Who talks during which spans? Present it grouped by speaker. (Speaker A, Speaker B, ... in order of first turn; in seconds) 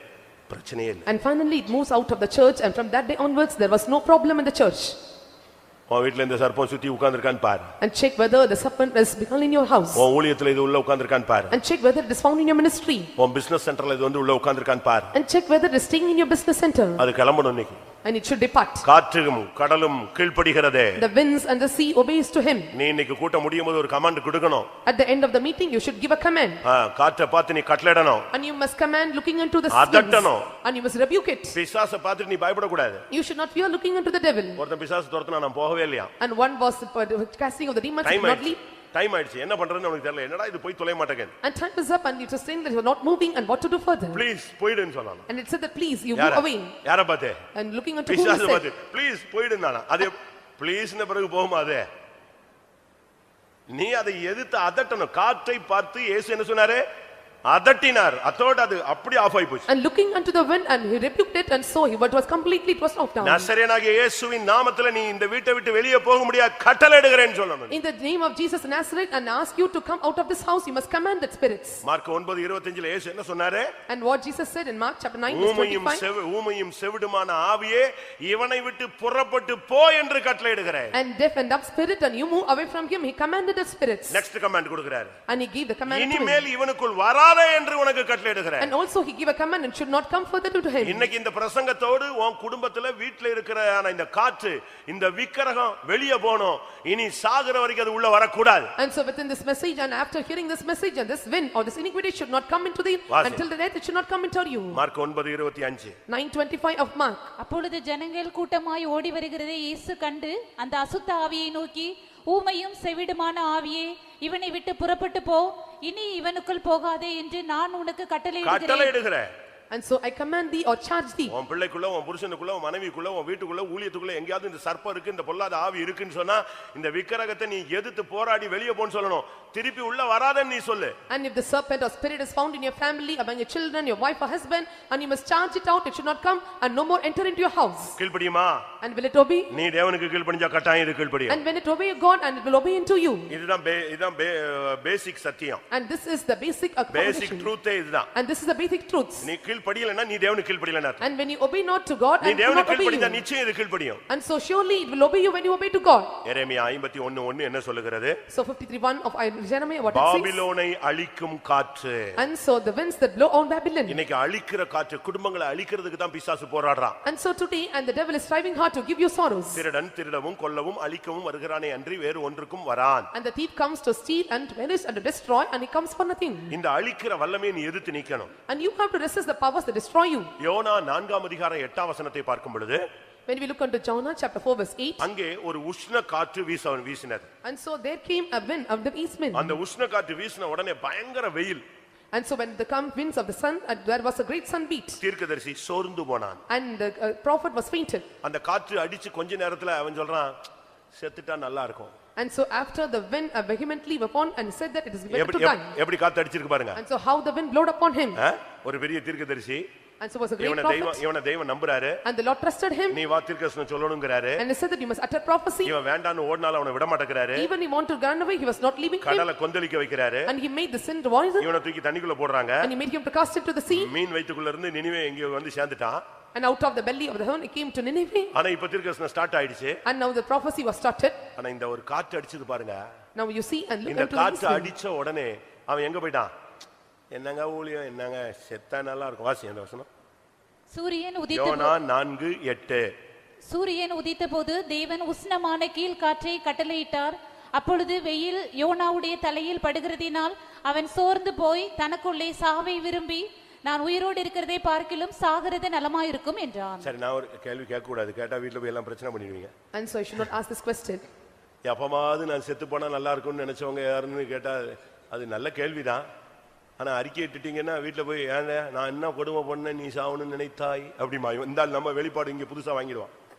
Speaker A: 0.5-1.1, 5.9-7.7, 9.9-11.6, 13.2-15.1, 17.0-17.8, 18.8-21.0, 22.7-24.7, 26.6-28.3, 29.7-30.5, 31.5-33.0, 34.6-36.1, 38.0-41.3, 44.1-45.2, 46.1-47.4, 48.1-51.9, 53.7-56.8, 57.5-59.7, 63.2-67.7, 71.8-73.7, 75.3-80.9, 84.1-85.1, 85.9-88.7, 90.8-98.7, 103.1-103.4, 104.7-106.0, 118.4-119.3, 121.3-130.9, 138.0-138.7, 139.5-141.4, 143.3-145.6, 146.9-148.1, 149.2-151.0, 152.2-154.0, 156.2-158.2, 159.9-162.2, 163.9-167.0, 169.5-173.1, 176.5-178.3, 180.4-182.8, 185.0-187.3, 189.3-191.6, 195.0-196.4, 198.2-200.4, 200.9-201.9, 205.1-206.8, 208.2-209.7, 210.4-212.0, 212.9-214.4, 215.6-217.5, 219.0-220.3, 221.4-222.7, 223.7-226.0, 228.3-229.8, 231.4-232.8, 233.9-236.3, 237.1-239.9, 241.3-242.9, 256.8-259.5, 261.6-266.1, 266.8-273.1
Speaker B: 1.1-5.0, 7.8-10.1, 11.5-13.1, 15.1-17.0, 18.0-18.8, 21.0-22.7, 24.8-26.6, 28.3-31.6, 33.1-34.6, 36.2-38.6, 41.4-44.2, 45.3-46.7, 47.5-48.7, 59.7-63.5, 67.7-71.8, 73.9-76.0, 80.9-84.2, 85.3-86.5, 88.6-91.0, 98.8-104.8, 106.1-107.3, 119.7-121.3, 131.1-138.0, 138.8-139.5, 141.3-143.3, 145.7-147.5, 148.1-149.3, 151.0-153.2, 154.1-156.2, 158.3-160.4, 162.2-164.0, 167.0-169.6, 173.1-176.5, 178.5-180.3, 183.3-185.1, 187.4-189.6, 192.1-195.0, 196.5-198.1, 202.2-205.7, 206.8-208.2, 210.0-211.0, 212.0-213.0, 214.4-215.7, 217.3-219.3, 220.3-221.5, 222.6-223.9, 226.3-228.3, 229.8-231.2, 233.2-234.7, 259.7-261.0
Speaker C: 107.4-118.9, 240.7-241.7, 243.5-256.9